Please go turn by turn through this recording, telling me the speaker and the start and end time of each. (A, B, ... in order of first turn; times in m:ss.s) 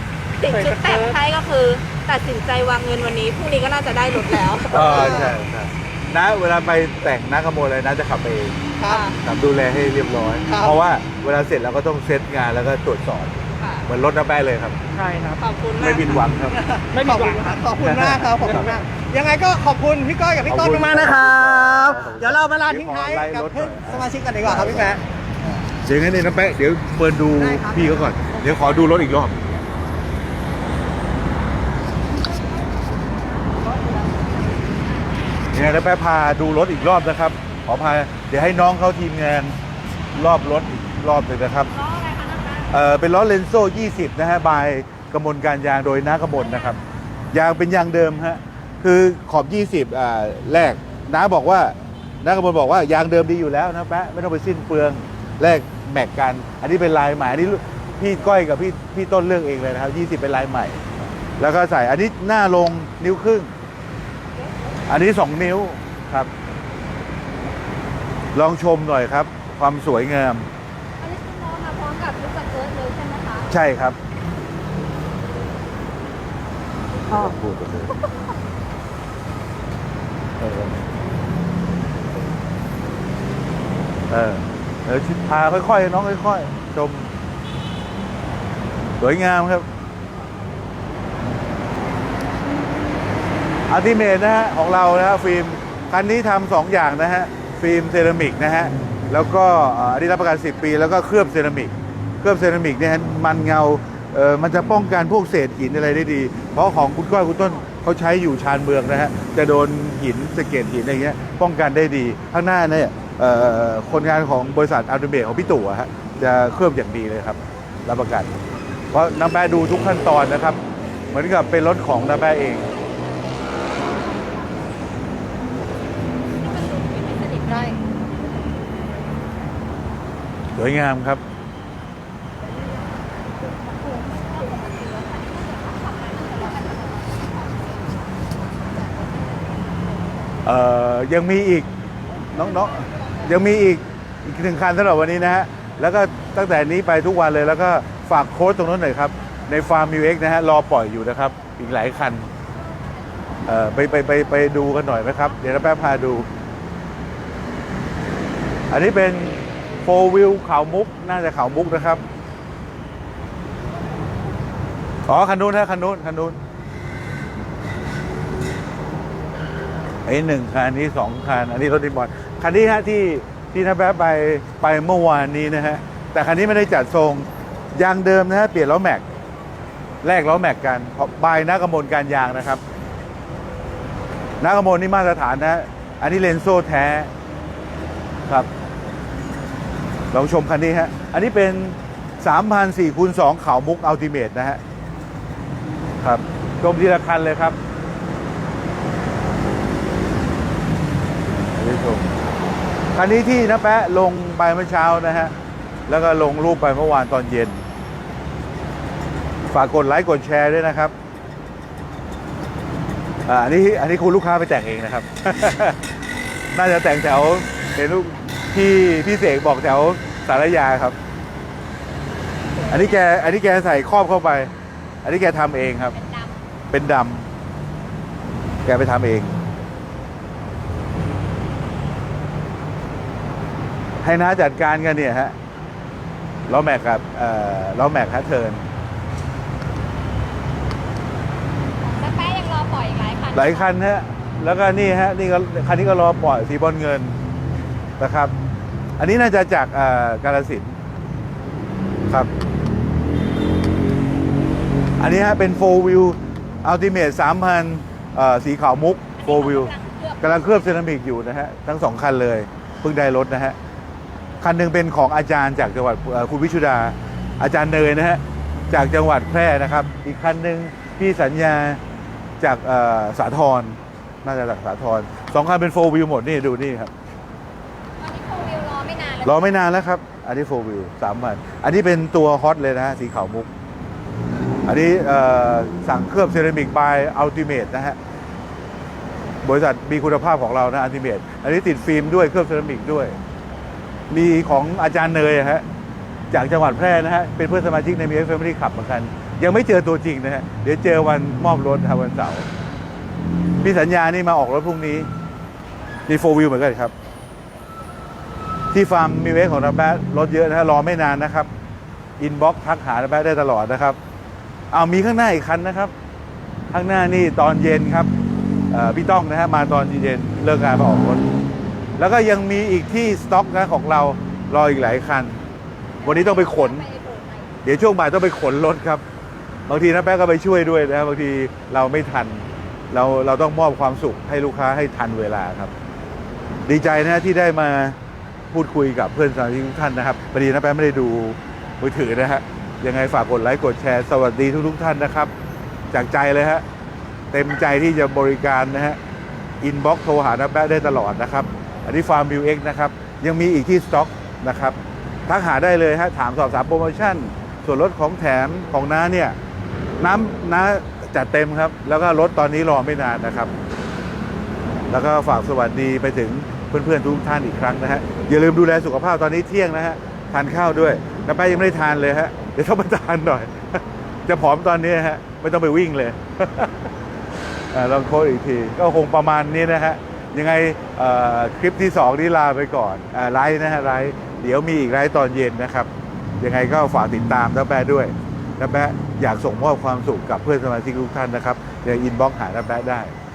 0:00.4-0:05.3 A
0:00.5-0:01.2 B
0:04.7-0:08.6 C
0:04.9-0:05.4 D
0:08.8-0:09.1 D
0:08.9-0:09.2 A
0:09.2-0:14.8 C
0:10.4-0:10.8 D
0:13.6-0:13.9 A
0:14.9-0:15.4 B
0:15.4-0:16.3 A
0:15.8-0:16.6 C
0:16.5-0:25.0 D
0:16.9-0:17.6 B
0:17.8-0:18.7 C
0:20.5-0:29.4 C
0:27.4-0:28.9 D
0:35.5-0:39.6 C
0:40.1-0:41.7 C
0:41.8-0:42.7 E
0:42.7-0:46.8 C
0:47.3-1:00.8 C
1:01.4-1:03.5 C
1:04.9-1:06.3 C
1:08.3-1:10.5 C
1:11.0-1:13.5 E
1:13.5-1:14.0 C
1:17.1-1:17.9 C
1:20.4-1:20.8 C
1:24.1-1:27.1 C
1:29.0-1:29.7 C
1:33.7-1:58.3 C
1:58.9-2:00.6 C
2:01.1-2:02.7 C
2:06.5-2:07.6 E
2:07.4-2:07.8 D
2:10.6-2:11.2 C
2:14.1-2:19.6 E
2:20.4-2:21.7 C
2:22.3-2:32.3 C
2:33.5-2:36.3 C
2:38.7-2:42.0 C
2:45.1-2:46.4 C
2:50.0-2:59.0 C
3:00.0-3:02.6 C
3:04.4-3:07.1 C
3:10.1-3:14.6 C
3:16.0-3:17.6 C
3:21.5-3:22.1 C
3:22.9-3:25.3 C
3:25.9-3:27.7 C
3:29.5-3:30.9 C
3:33.2-3:35.8 C
3:36.5-3:41.0 C
3:42.6-3:42.8 E
3:42.7-3:44.5 C
3:45.0-3:46.0 C
3:46.0-3:46.3 E
3:46.7-3:47.3 C
3:48.6-3:49.4 C
3:54.0-3:55.3 C
3:56.5-3:58.6 C
4:01.8-4:03.7 E
4:03.3-4:07.2 C
4:08.0-4:08.3 C
4:09.0-4:10.8 C
4:15.0-4:23.6 C
4:19.3-4:20.3 E
4:24.4-4:31.8 C
4:32.4-4:36.9 C
4:38.0-4:39.5 E
4:39.2-4:43.5 C
4:44.7-4:48.0 C
4:49.4-4:53.2 C
4:54.1-4:55.6 C
4:56.3-5:02.5 C
5:03.6-5:05.1 C
5:06.1-5:06.9 C
5:08.7-5:11.5 C
5:12.2-5:14.0 C
5:14.7-5:15.9 C
5:16.7-5:18.1 C
5:18.7-5:21.2 C
5:22.0-5:25.4 C
5:26.0-5:26.9 C
5:26.0-5:27.5 E
5:27.6-5:29.0 C
5:29.7-5:35.7 C
5:36.7-5:38.0 C
5:38.5-5:45.3 C
5:45.9-5:46.6 C
5:47.3-5:49.0 C
5:49.6-5:59.4 C
6:00.0-6:03.5 C
6:04.9-6:16.7 C
6:17.7-6:33.1 C